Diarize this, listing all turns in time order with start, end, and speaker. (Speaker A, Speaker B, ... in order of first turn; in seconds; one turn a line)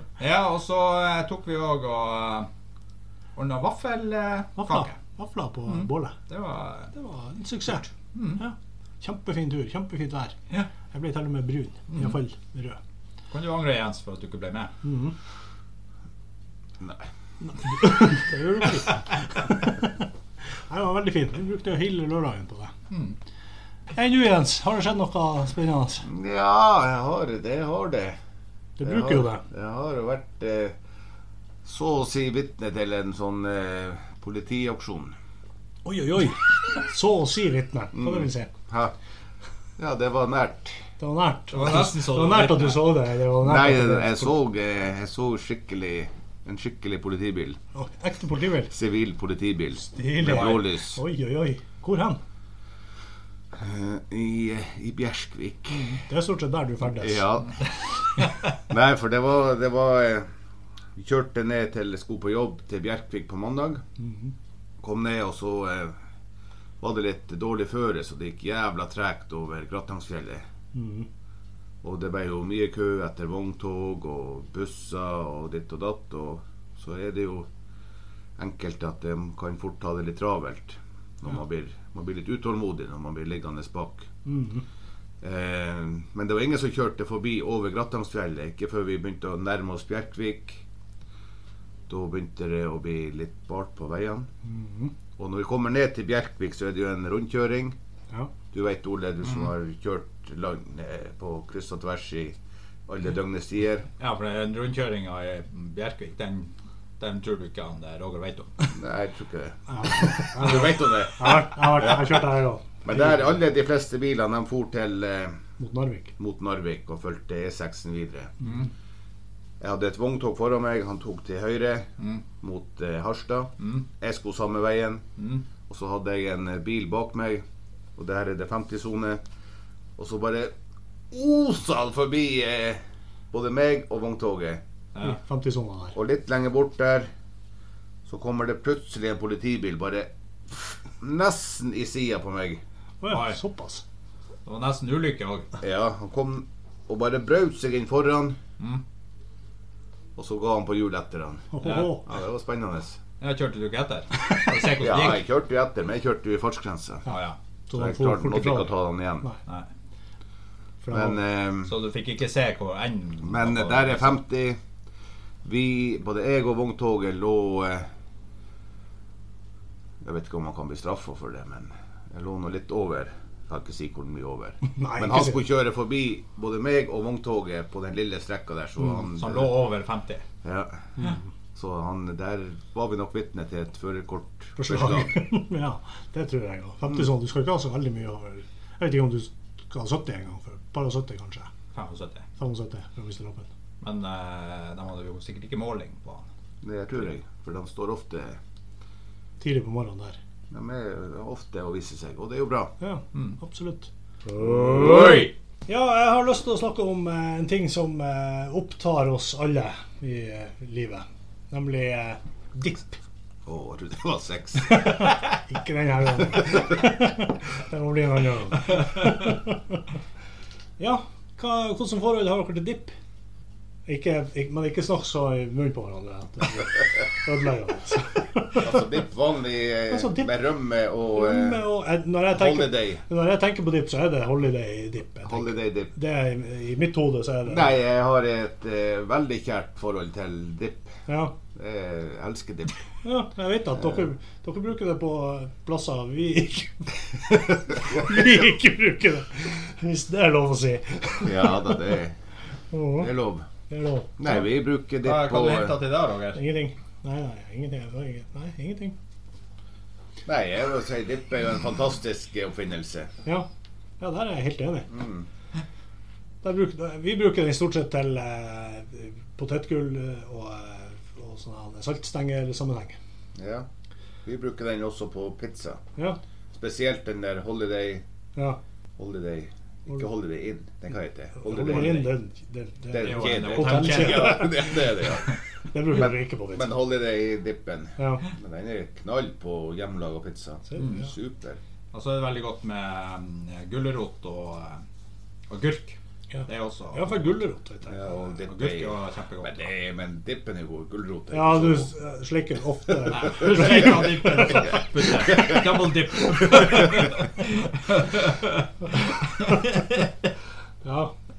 Speaker A: 0.2-2.5
Speaker A: 3.4-4.9
Speaker B: 4.6-6.1
Speaker A: 5.7-6.9
Speaker B: 6.9-10.3
Speaker A: 8.1-8.4
Speaker B: 10.9-12.8
Speaker A: 11.9-12.2
Speaker A: 13.3-14.7
Speaker B: 14.8-15.1
Speaker C: 16.8-17.1
Speaker B: 17.4-20.0
Speaker B: 20.7-22.7
Speaker A: 22.9-23.1
Speaker B: 23.9-26.0
Speaker C: 26.0-28.2
Speaker B: 28.8-29.4
Speaker C: 28.8-30.8
Speaker C: 31.6-35.1
Speaker B: 35.8-38.5
Speaker C: 38.0-38.9
Speaker C: 39.8-40.8
Speaker B: 41.0-44.3
Speaker A: 41.5-42.9
Speaker C: 43.4-47.6
Speaker B: 47.7-48.7
Speaker C: 48.7-51.0
Speaker B: 49.8-52.2
Speaker C: 53.5-55.9
Speaker B: 55.7-57.2
Speaker C: 56.8-57.7
Speaker C: 58.2-60.3
Speaker C: 60.9-63.8
Speaker B: 64.0-64.3
Speaker C: 64.8-66.0
Speaker C: 66.8-70.4
Speaker B: 70.7-71.1
Speaker C: 71.8-77.5
Speaker C: 78.4-84.1
Speaker B: 84.2-84.6
Speaker C: 85.2-90.6
Speaker C: 91.9-94.3
Speaker B: 94.5-94.9
Speaker C: 95.2-97.8
Speaker C: 98.5-103.9
Speaker A: 104.0-108.7
Speaker C: 108.7-112.2
Speaker B: 109.7-113.0
Speaker C: 112.8-115.4
Speaker B: 115.6-116.1
Speaker C: 116.2-118.4
Speaker C: 119.6-121.9
Speaker C: 122.4-125.0
Speaker A: 125.2-125.4
Speaker C: 125.7-127.4
Speaker C: 128.0-129.2
Speaker C: 130.0-130.5
Speaker C: 131.1-134.6
Speaker B: 135.0-136.0
Speaker C: 135.9-137.1
Speaker C: 138.1-142.6
Speaker B: 143.0-143.8
Speaker A: 143.1-143.4
Speaker A: 144.4-145.5
Speaker C: 145.6-148.4
Speaker C: 150.2-153.0
Speaker B: 151.5-152.0
Speaker A: 151.6-151.9
Speaker A: 153.2-155.2
Speaker C: 154.8-157.1
Speaker A: 157.1-157.3
Speaker B: 157.7-159.4
Speaker C: 157.7-159.3
Speaker B: 160.8-161.2
Speaker C: 160.9-161.7
Speaker A: 161.6-164.2
Speaker C: 163.2-164.6
Speaker C: 165.4-167.9
Speaker C: 170.0-179.5
Speaker B: 174.7-175.4
Speaker A: 179.0-180.2
Speaker C: 180.4-180.9
Speaker C: 181.5-185.1
Speaker B: 184.6-191.5
Speaker A: 191.7-192.3
Speaker B: 192.4-193.5
Speaker A: 193.8-196.3
Speaker C: 196.6-198.4
Speaker B: 199.4-200.2
Speaker C: 200.5-202.7
Speaker B: 202.8-203.9
Speaker C: 204.3-205.3
Speaker A: 204.5-205.3
Speaker B: 205.7-213.0
Speaker C: 213.4-215.0
Speaker B: 214.7-219.8
Speaker B: 220.8-222.9
Speaker B: 223.9-228.7
Speaker C: 228.6-231.6
Speaker B: 229.9-230.3
Speaker B: 231.1-237.7
Speaker C: 232.3-233.0
Speaker C: 235.2-235.9
Speaker C: 237.4-241.0
Speaker B: 241.1-241.3
Speaker C: 241.5-242.9
Speaker B: 243.0-251.8
Speaker C: 251.2-252.2
Speaker B: 252.7-253.1
Speaker C: 252.9-253.4
Speaker B: 253.7-254.3
Speaker C: 254.2-255.8
Speaker A: 255.0-256.4
Speaker B: 256.3-258.9
Speaker C: 260.2-263.1
Speaker B: 264.0-264.9
Speaker C: 264.9-265.2
Speaker B: 266.4-273.0
Speaker C: 273.3-273.7
Speaker C: 274.2-275.8
Speaker C: 276.5-278.0
Speaker C: 279.0-282.1
Speaker B: 281.4-284.9
Speaker A: 281.7-282.0
Speaker C: 282.9-285.4
Speaker A: 283.0-284.6
Speaker B: 285.7-286.7
Speaker C: 285.9-291.6
Speaker B: 288.0-288.2
Speaker B: 290.7-291.0
Speaker A: 291.9-294.8
Speaker A: 295.5-297.3
Speaker B: 296.3-298.1
Speaker C: 297.9-301.9
Speaker A: 298.4-299.7
Speaker B: 301.3-304.9
Speaker A: 303.1-310.1
Speaker B: 310.8-311.1